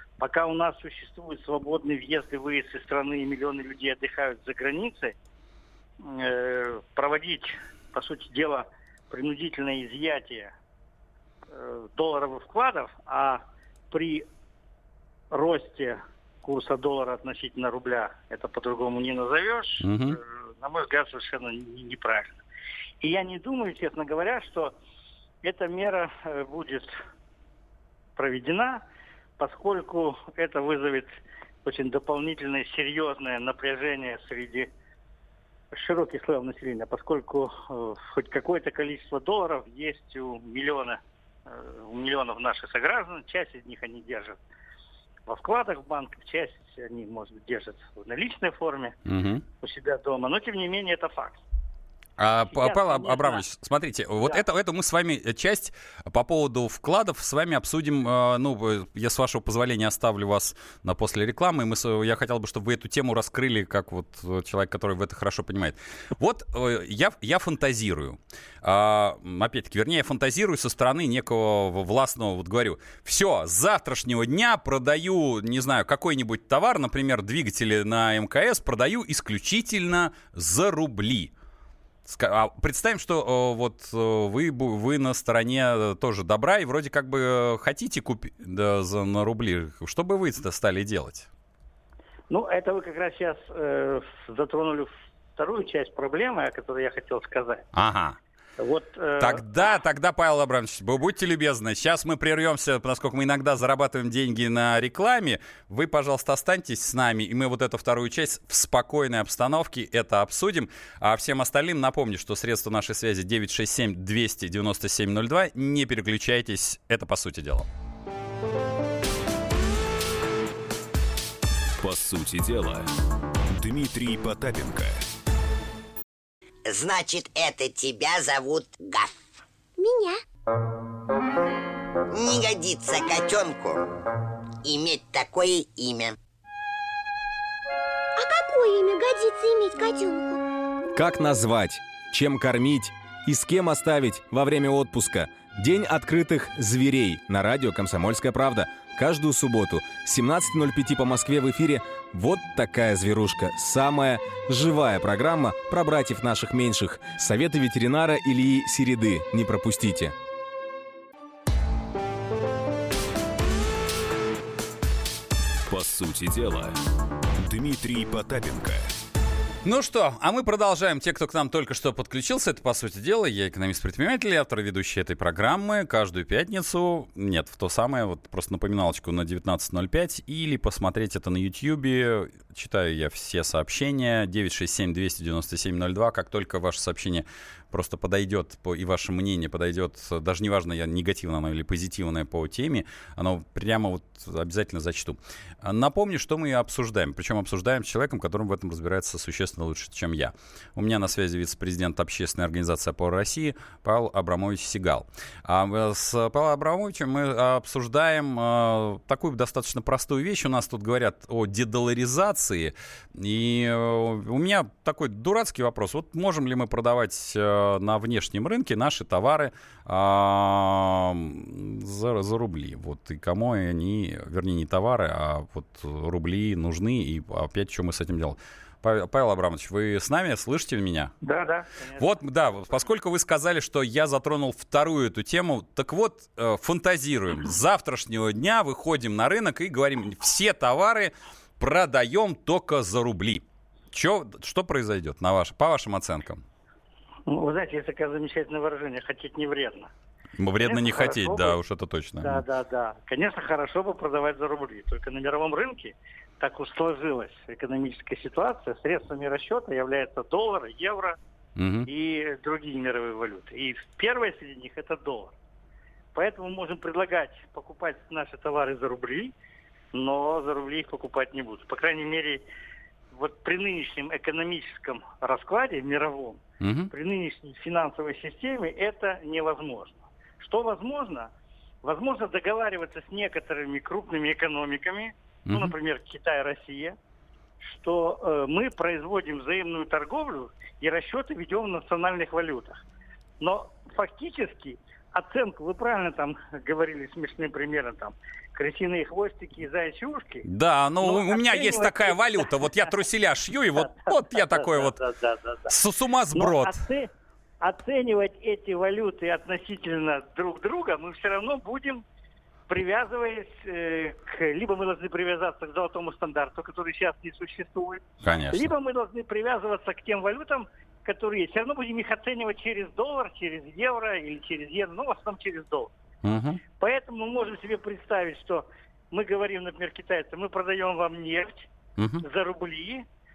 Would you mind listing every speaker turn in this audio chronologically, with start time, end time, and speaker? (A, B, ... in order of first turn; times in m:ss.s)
0:00.2-0:05.2 A
0:06.0-0:10.5 A
0:11.5-0:14.3 A
0:15.3-0:22.3 A
0:19.8-0:20.2 B
0:23.0-0:24.8 A
0:25.4-0:26.9 A
0:28.2-0:28.8 A
0:29.4-0:31.1 A
0:31.6-0:34.7 A
0:35.7-0:44.4 A
0:45.3-0:49.0 A
0:49.1-0:49.4 B
0:49.6-0:51.4 A
0:52.2-1:21.3 B
0:52.5-0:53.4 A
1:22.0-1:31.3 B
1:32.3-1:37.7 A
1:37.7-1:38.2 B
1:38.6-1:39.4 A
1:39.2-1:57.7 B
2:01.8-2:02.9 C
2:03.5-2:05.0 C
2:06.7-2:09.3 D
2:09.8-2:10.2 E
2:12.1-2:13.9 D
2:14.6-2:16.2 D
2:18.2-2:20.4 E
2:20.9-2:40.1 F
2:45.7-2:46.8 C
2:47.4-2:48.9 C
2:49.6-3:51.1 B
3:51.2-3:52.2 A
3:52.0-4:06.4 B
4:07.3-4:09.9 A
4:10.4-4:12.4 B
4:10.6-4:11.6 A
4:12.2-4:21.2 A
4:21.6-4:21.9 B
4:21.9-4:25.4 A
4:26.2-4:29.3 A
4:29.9-4:32.4 A
4:33.1-4:41.3 A
4:36.6-4:36.9 B
4:41.8-4:47.0 A
4:45.5-4:45.8 B
4:47.6-4:52.8 A
4:53.4-5:00.5 A
5:00.4-5:05.0 B
5:01.0-5:02.9 A
5:03.8-5:05.7 A
5:05.7-5:06.8 B
5:06.4-5:07.1 A
5:07.6-5:12.0 A
5:12.7-5:25.9 A
5:18.2-5:18.7 B
5:26.2-5:26.6 B
5:26.8-5:31.7 A
5:32.0-5:32.2 B
5:32.2-5:33.1 A